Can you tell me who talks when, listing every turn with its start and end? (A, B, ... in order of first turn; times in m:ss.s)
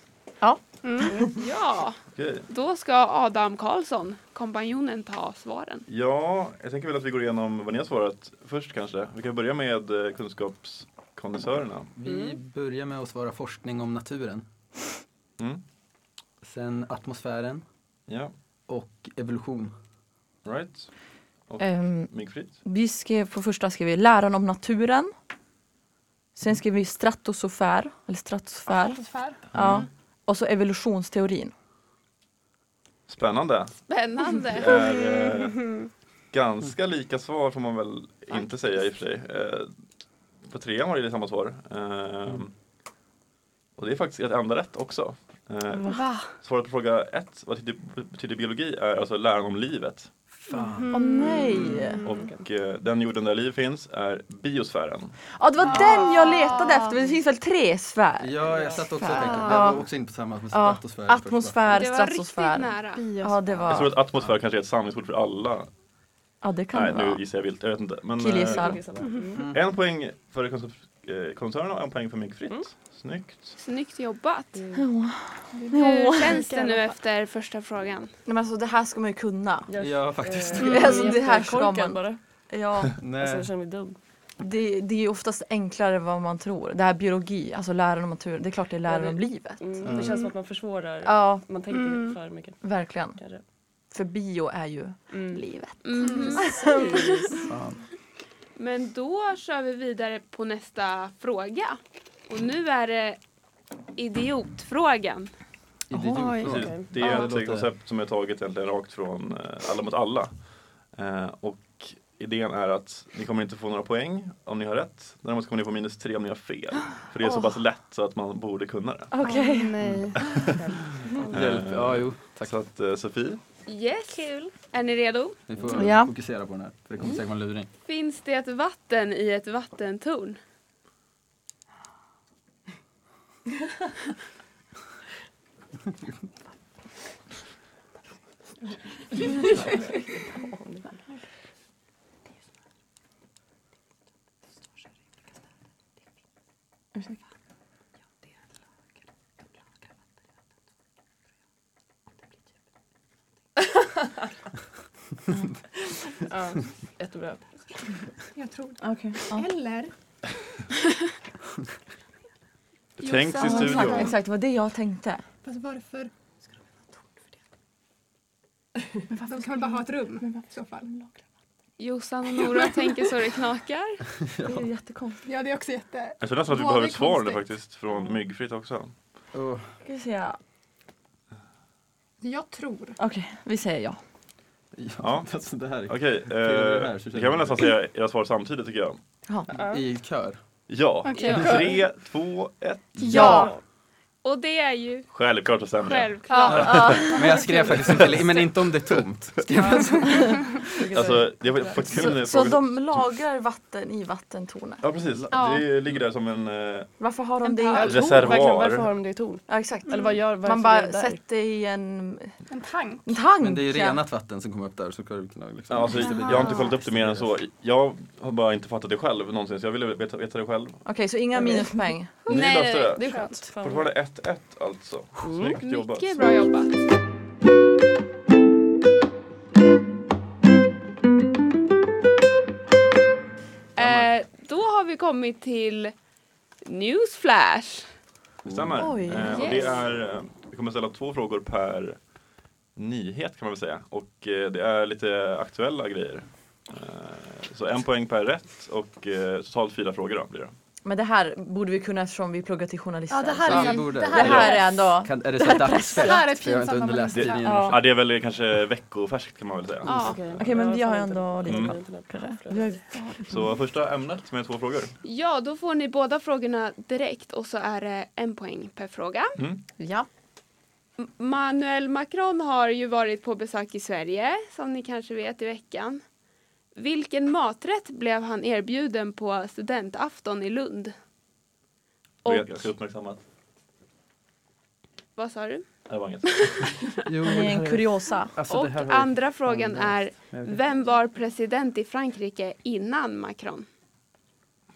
0:00.4-0:01.3 A
0:00.8-0:01.2 B
0:01.3-0:05.8 C
0:02.2-0:02.5 D
0:05.9-0:11.9 D
0:12.0-0:14.4 E
0:12.0-0:12.4 F
0:16.4-0:17.6 E
0:18.1-0:18.3 D
0:18.7-0:19.7 E
0:20.4-0:20.9 D
0:21.5-0:22.5 D
0:21.6-0:22.1 A
0:22.6-0:25.1 A
0:26.4-0:31.5 A
0:28.7-0:29.4 B
0:29.5-0:29.8 D
0:33.1-0:33.8 D
0:33.9-0:35.0 C
0:34.5-0:35.8 D
0:35.2-0:35.7 B
0:36.3-0:39.7 D
0:40.5-0:42.5 D
0:43.8-0:50.1 D
0:45.8-0:46.3 B
0:50.5-0:51.9 E
0:50.5-0:52.2 B
0:50.9-0:52.0 A
0:52.0-0:55.2 D
0:52.1-0:52.4 F
0:55.3-0:58.3 A
0:55.6-0:56.9 B
0:58.2-1:01.6 E
0:58.4-0:59.3 F
0:59.0-0:59.9 A
0:59.1-0:59.8 B
1:00.5-1:03.9 A
1:01.7-1:03.0 C
1:03.0-1:03.7 B
1:03.7-1:05.7 D
1:06.4-1:07.2 A
1:06.7-1:08.8 D
1:08.2-1:08.8 A
1:08.3-1:09.5 F
1:09.0-1:09.3 B
1:09.5-1:13.5 D
1:13.6-1:14.6 C
1:14.5-1:14.8 F
1:14.7-1:16.4 A
1:15.5-1:17.0 B
1:15.8-1:18.1 C
1:18.2-1:19.7 A
1:19.7-1:22.2 F
1:19.8-1:20.9 E
1:20.5-1:22.9 A
1:20.6-1:21.1 B
1:23.0-1:23.5 E
1:23.1-1:24.0 F
1:24.4-1:30.0 A
1:28.8-1:33.4 F
1:29.8-1:30.2 E
1:31.0-1:31.4 A
1:31.7-1:32.2 B
1:32.6-1:33.2 A
1:33.9-1:37.0 A
1:35.1-1:35.4 F
1:35.8-1:37.3 C
1:36.0-1:37.0 B
1:36.8-1:37.3 F
1:37.5-1:37.8 E
1:38.6-1:43.2 C
1:44.0-1:45.3 C
1:45.9-1:47.7 E
1:45.9-1:46.2 A
1:46.1-1:46.5 B
1:46.4-1:59.1 D
1:46.5-1:46.9 F
1:57.2-1:57.5 A
1:59.1-1:59.8 A
1:59.2-2:00.5 B
2:00.2-2:00.6 D
2:00.5-2:01.4 F
2:01.3-2:03.4 D
2:01.3-2:02.6 E
2:03.7-2:05.4 C
2:05.5-2:07.7 E
2:05.7-2:06.1 A
2:07.8-2:10.4 C
2:19.5-2:21.0 F
2:36.2-2:38.0 F
2:38.3-2:39.9 B
2:38.8-2:39.5 A
2:43.0-2:44.0 C
2:43.0-2:44.1 D
2:43.4-2:45.2 A
2:43.4-2:44.1 B
2:45.4-2:46.1 B
2:49.1-2:50.9 B
2:49.3-2:51.1 A
2:51.8-2:54.0 C
2:52.4-2:53.0 B
2:54.3-2:54.7 E
2:54.4-2:55.2 A
2:55.2-2:57.5 B
2:56.2-2:58.9 D
2:59.3-2:59.7 E
2:59.8-3:00.4 A
3:02.2-3:03.0 B
3:03.0-3:04.0 A
3:04.8-3:07.7 E
3:05.0-3:05.3 D
3:05.9-3:09.0 D
3:09.5-3:09.8 F
3:09.6-3:10.4 E
3:10.7-3:13.4 D
3:11.0-3:11.8 B
3:11.1-3:11.6 C
3:13.0-3:13.5 B
3:13.1-3:13.5 A
3:13.1-3:13.6 F
3:14.2-3:15.1 C
3:15.1-3:17.2 D
3:15.8-3:17.0 C
3:16.3-3:17.6 B
3:16.5-3:20.7 E
3:16.6-3:17.5 A
3:17.8-3:18.4 D
3:19.5-3:22.2 F
3:20.0-3:20.3 B
3:20.1-3:20.3 A
3:20.9-3:22.9 D
3:21.9-3:24.8 A
3:24.8-3:26.9 D
3:25.3-3:25.6 C
3:27.0-3:28.1 A
3:27.6-3:31.2 F
3:27.8-3:28.9 D
3:29.5-3:32.4 A
3:32.5-3:33.1 B
3:33.0-3:34.0 A
3:33.4-3:37.3 E
3:35.7-3:40.8 D
3:36.0-3:36.6 B
3:40.8-3:42.2 A
3:42.2-3:43.1 C
3:42.3-3:46.3 D
3:43.0-3:43.5 B
3:43.5-3:43.9 F
3:45.2-3:45.6 F
3:45.6-3:46.8 C
3:53.8-3:55.9 C
3:53.8-3:54.1 D
3:56.6-3:57.9 C
3:58.4-3:59.0 E
3:58.4-4:02.0 D
3:58.8-3:59.6 A
3:59.3-3:59.8 C
4:02.8-4:10.5 D
4:10.8-4:16.3 A
4:13.1-4:14.9 B
4:13.4-4:17.8 E
4:14.2-4:14.5 D
4:15.9-4:17.6 B
4:17.1-4:20.4 D
4:17.4-4:17.8 A
4:19.8-4:20.2 C
4:19.8-4:22.9 F
4:20.3-4:23.5 A
4:21.4-4:21.8 D
4:23.3-4:24.9 D
4:25.0-4:29.4 C
4:29.4-4:29.6 D
4:29.8-4:30.1 A
4:31.0-4:36.0 C
4:36.7-4:40.9 C
4:42.2-4:42.6 C
4:42.2-4:43.2 D
4:45.2-4:45.7 C
4:45.9-4:46.7 D
4:46.2-4:46.8 C
4:47.0-4:50.6 E
4:47.2-4:48.3 A
4:48.5-4:53.6 C